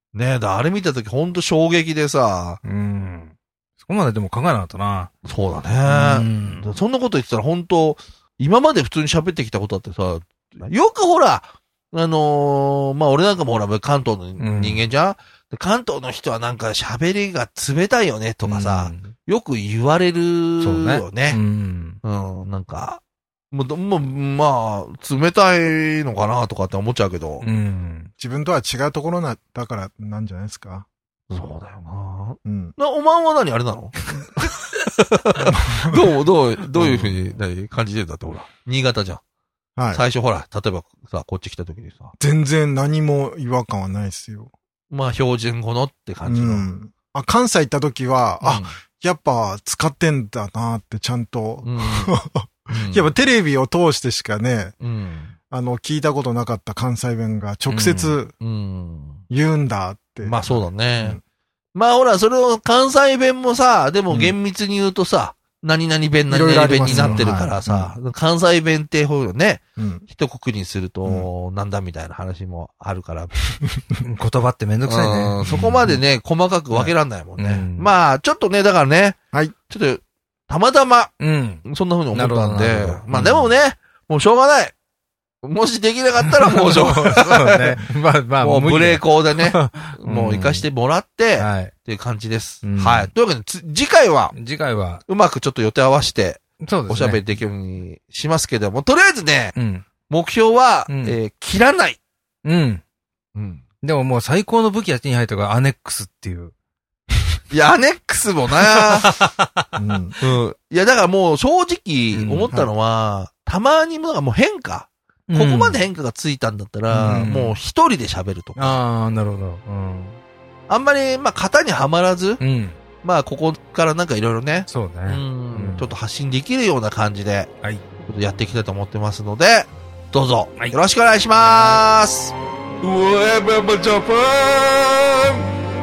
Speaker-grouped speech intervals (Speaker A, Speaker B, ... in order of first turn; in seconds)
Speaker A: 0.1-2.6, 5.2-21.4, 22.0-27.4, 31.3-39.2, 39.9-42.1, 44.9-46.7, 48.4-48.8, 51.6-52.1, 52.7-53.1, 54.8-55.3, 58.4-59.2, 60.2-61.2, 61.7-73.3, 74.9-79.2, 79.7-84.7, 85.4-87.8, 88.4-94.3, 95.1-99.6, 100.1-102.0, 103.3-103.6, 107.5-109.2, 110.2-118.8, 120.7-122.4, 123.0-127.5, 128.1-135.5
Speaker B: 2.6-5.1, 5.9-6.7, 14.4-14.8, 18.4-19.1, 20.6-22.0, 27.4-28.1, 57.7-58.2, 66.8-67.5, 74.0-75.9, 76.8-77.9, 81.2-83.5, 86.5-90.7, 91.4-91.7, 92.6-93.1, 94.3-95.0, 96.6-97.4, 99.6-99.8, 100.9-101.2, 102.4-102.8, 103.8-106.5, 109.0-109.5, 112.1-112.5, 115.3-115.8, 117.0-117.6, 118.6-120.2, 122.4-122.8, 124.7-125.9, 131.4-131.8
Speaker C: 28.2-30.9, 32.5-32.8, 35.5-36.0, 36.8-37.1, 39.8-40.0, 42.2-44.5, 46.3-54.8, 55.5-58.3, 59.3-61.2, 64.1-64.3, 66.3-67.9, 69.8-70.0, 109.8-110.1, 117.0-117.3